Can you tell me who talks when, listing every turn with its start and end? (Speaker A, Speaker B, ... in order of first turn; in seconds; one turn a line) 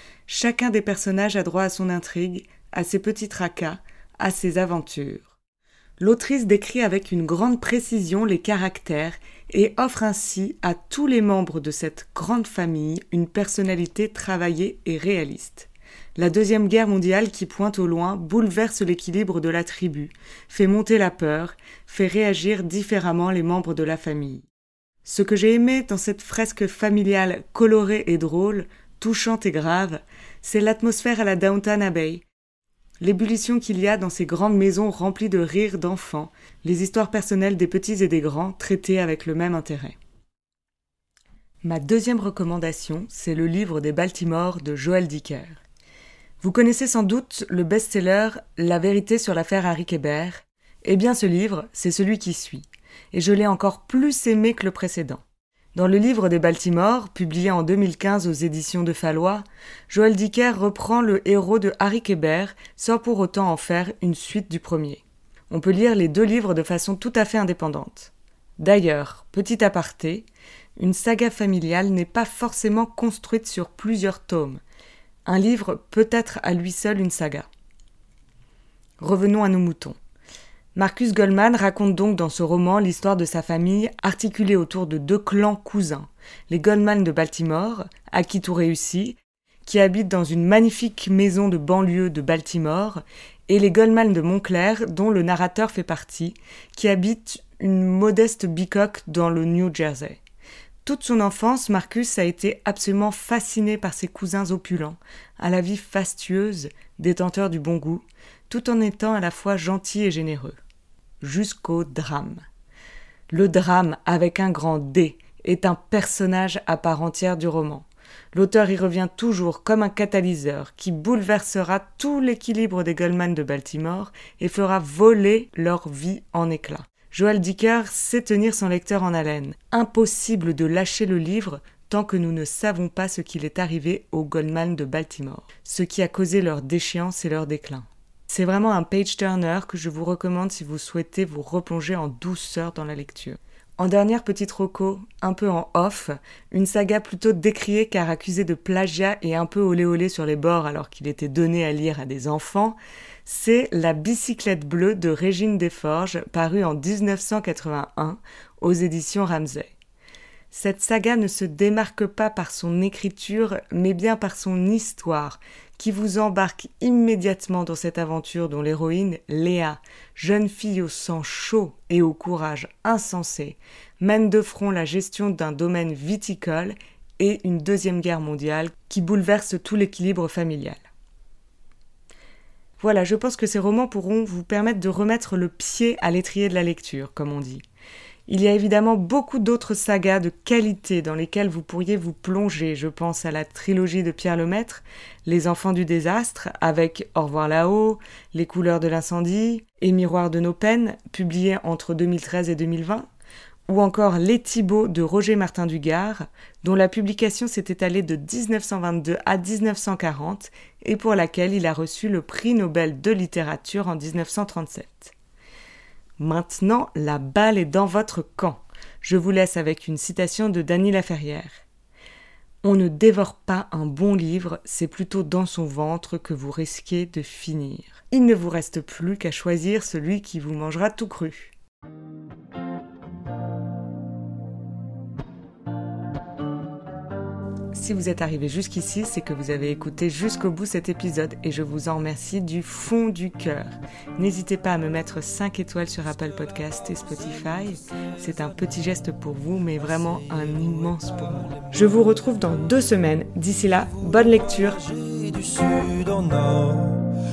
Speaker A: 0.3-5.3
Speaker A: 6.0-24.5
Speaker A: 25.0-32.2
Speaker A: 33.0-39.9
Speaker A: 41.6-45.6
Speaker A: 46.4-55.2
Speaker A: 55.7-70.2
Speaker A: 70.8-74.6
Speaker A: 75.2-77.5
Speaker A: 79.0-80.0
Speaker A: 80.7-100.2
Speaker A: 100.8-110.6
Speaker A: 111.2-112.4
Speaker A: 113.3-159.7
Speaker A: 160.5-180.8
Speaker A: 182.8-187.6
Speaker A: 188.3-203.1
Speaker A: 203.7-215.1
Speaker A: 216.2-221.6
Speaker A: 222.6-231.5
Speaker A: 237.7-254.9